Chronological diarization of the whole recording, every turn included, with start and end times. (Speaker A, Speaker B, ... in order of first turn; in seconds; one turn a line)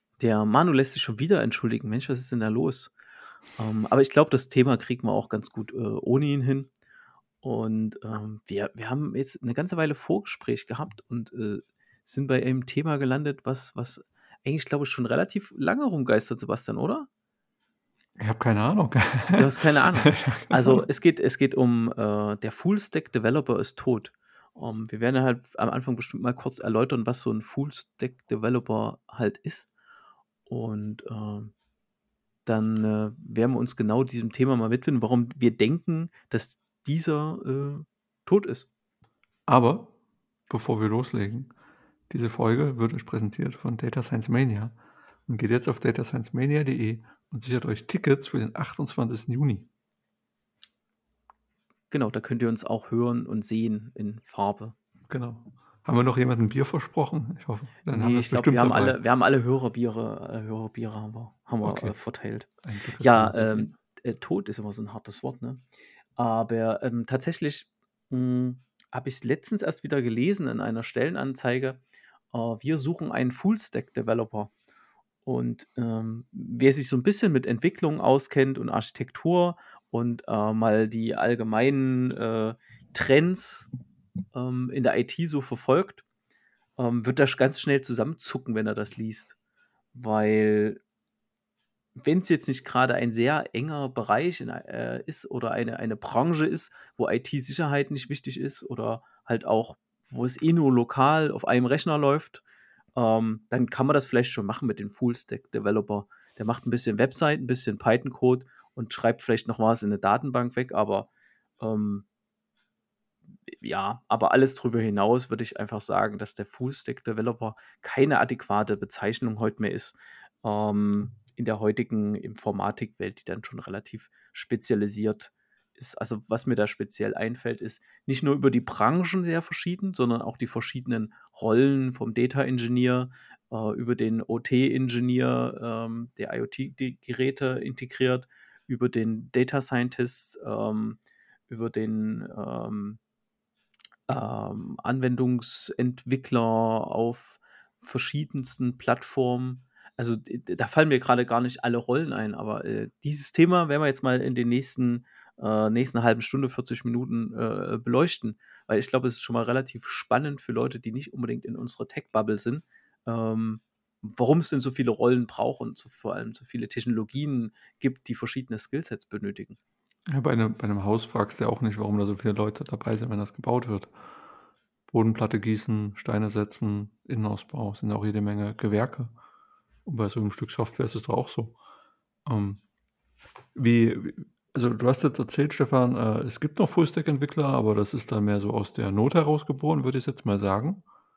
Speaker A: 0.2-2.9
Speaker A: 3.5-6.7
Speaker A: 7.4-17.1
Speaker B: 18.2-19.5
Speaker A: 19.3-29.7
Speaker B: 20.0-20.8
Speaker A: 30.5-31.5
Speaker A: 32.5-38.7
Speaker B: 39.5-39.9
Speaker B: 40.5-41.5
Speaker B: 42.1-44.7
Speaker B: 45.3-49.7
Speaker A: 51.9-54.7
Speaker B: 55.1-59.0
Speaker A: 57.8-62.5
Speaker B: 61.6-62.0
Speaker B: 62.6-63.7
Speaker A: 63.0-65.6
Speaker A: 66.2-71.8
Speaker A: 72.3-74.5
Speaker A: 75.2-83.7
Speaker A: 84.3-86.0
Speaker A: 86.8-89.3
Speaker A: 89.9-90.8
Speaker A: 92.0-102.4
Speaker A: 102.9-111.1
Speaker A: 111.6-112.0
Speaker A: 113.5-143.0
Speaker A: 144.1-169.6
Speaker B: 170.1-173.9
Speaker B: 174.9-179.1
Speaker B: 179.8-181.6
Speaker B: 182.2-182.6
Speaker B: 183.5-190.8